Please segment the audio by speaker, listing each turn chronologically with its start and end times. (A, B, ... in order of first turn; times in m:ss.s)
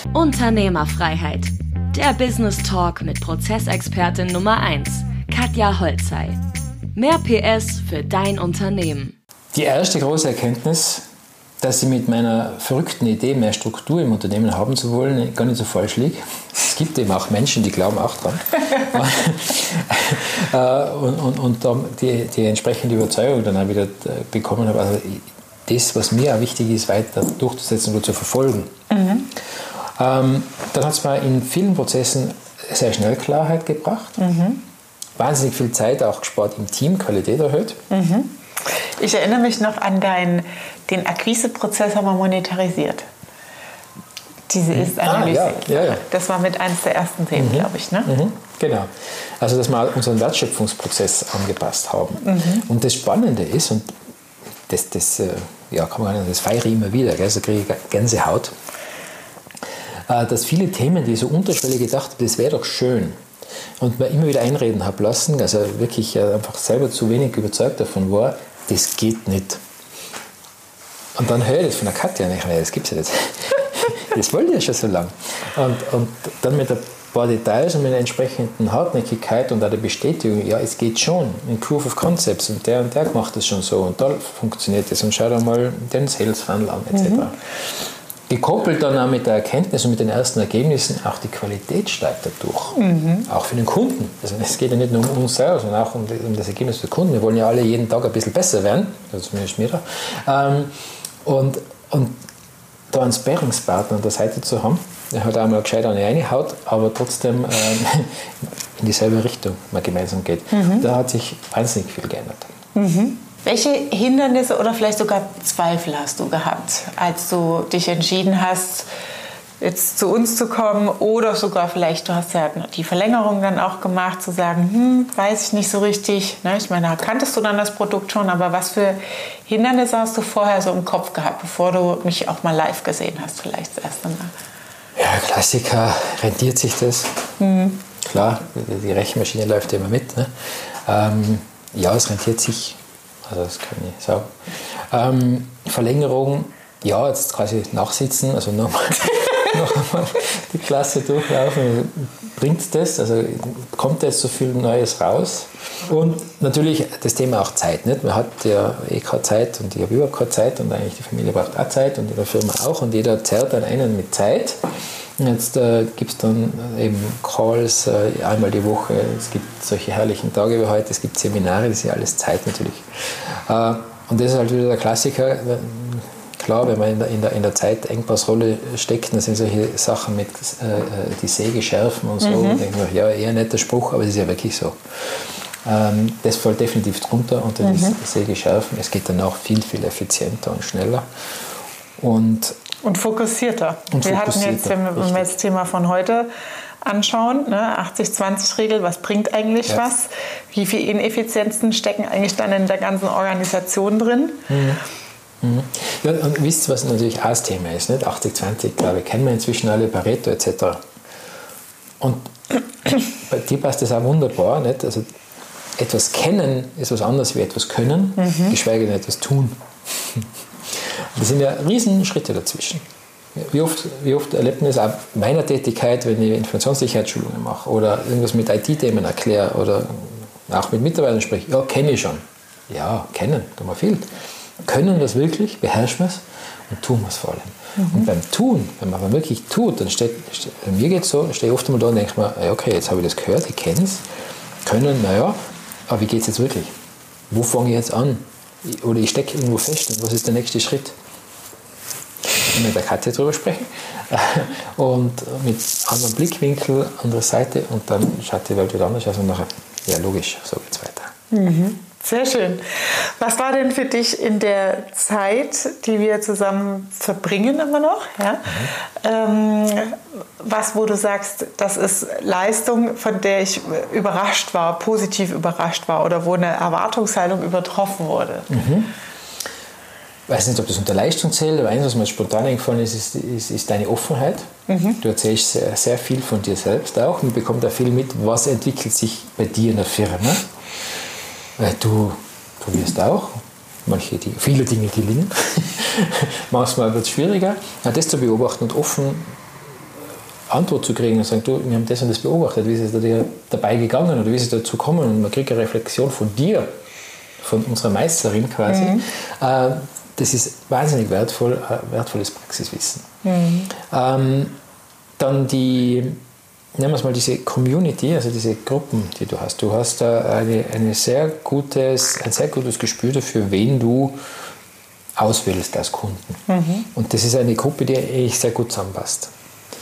0:00.1-0:06.4 A
0:07.0-0:09.1 A
0:09.5-0:11.0 B
0:11.6-0:28.7 B
0:28.9-0:29.3 C
0:30.0-0:34.2 B
0:34.2-0:34.6 C
0:35.2-0:37.8 B
0:37.9-0:43.0 C
0:44.5-0:48.1 C
0:44.7-0:46.0 B
0:47.4-0:48.9 B
0:49.4-0:53.9 B
0:52.2-0:52.6 C
0:54.7-0:58.5 B
1:00.1-1:03.2 B
1:03.8-1:09.6 B
1:11.2-1:27.4 B
1:26.9-1:27.3 C
1:28.3-1:40.7 B
1:32.8-1:33.3 C
1:41.2-1:42.2 B
1:42.9-1:52.5 B
1:50.5-1:50.9 C
1:52.8-1:58.9 C
1:59.6-2:14.3 C
2:15.0-2:17.2 B
2:17.4-2:17.8 C
2:18.0-2:20.3 B
2:20.9-2:44.6 B
2:45.2-3:04.8 B
3:02.2-3:02.6 C
3:05.6-3:11.1 B
3:07.6-3:08.0 C
3:12.0-3:12.6 B
3:12.8-3:16.3 C
3:13.9-3:15.3 B
3:16.8-3:24.5 C
3:24.5-3:24.8 B
3:25.4-3:30.8 B
3:32.0-3:32.3 B
3:32.9-3:35.1 B
3:35.8-3:42.8 B
3:38.3-3:38.6 C
3:43.4-3:54.1 B
3:54.6-4:04.0 B
3:57.8-3:58.1 C
4:04.6-4:06.7 B
4:07.3-4:11.0 B
4:12.5-4:21.1 B
4:21.3-4:38.5 C
4:28.5-4:28.7 B
4:38.5-4:38.9 B
4:40.3-4:44.5 B
4:44.7-4:45.0 C
4:45.0-4:50.5 B
4:51.6-4:59.4 B
5:00.5-5:06.7 B
5:07.4-5:13.1 B
5:08.7-5:09.0 C
5:13.2-5:13.7 C
5:13.7-5:14.6 B
5:15.2-5:16.2 B
5:16.8-5:24.2 B
5:25.2-5:26.4 B
5:26.5-5:26.9 C
5:26.9-5:29.3 B